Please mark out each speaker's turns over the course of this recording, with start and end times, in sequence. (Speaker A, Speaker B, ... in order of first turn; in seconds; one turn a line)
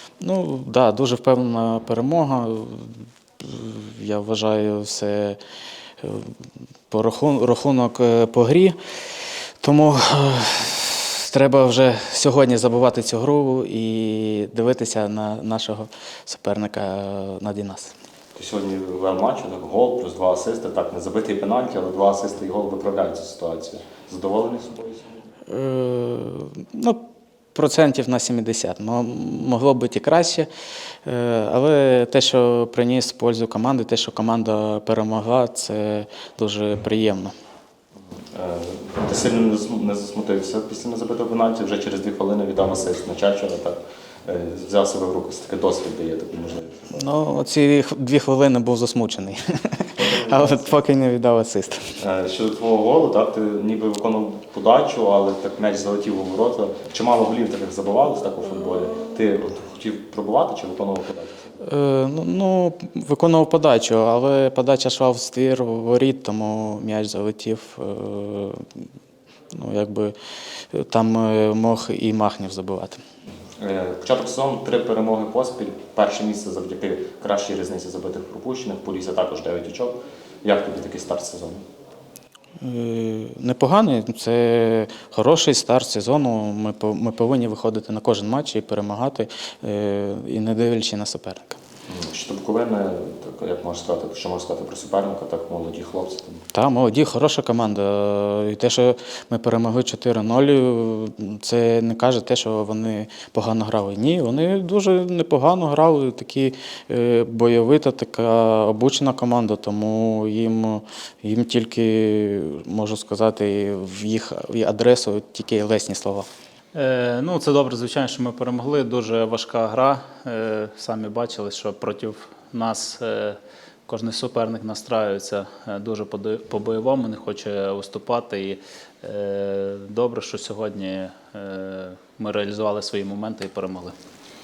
Speaker A: 0.2-5.4
Speaker A: 6.0-6.3
Speaker A: 6.9-8.8
Speaker A: 9.6-17.9
Speaker B: 18.4-25.2
Speaker A: 25.5-27.0
Speaker A: 27.5-30.5
Speaker A: 31.0-37.3
Speaker B: 38.3-47.1
Speaker A: 46.9-52.0
Speaker B: 50.0-50.8
Speaker B: 52.0-61.5
Speaker A: 61.6-68.7
Speaker A: 69.5-70.1
Speaker A: 70.7-73.0
Speaker B: 73.6-81.6
Speaker A: 82.6-91.6
Speaker B: 91.9-96.4
Speaker A: 96.5-116.3
Speaker C: 116.7-133.9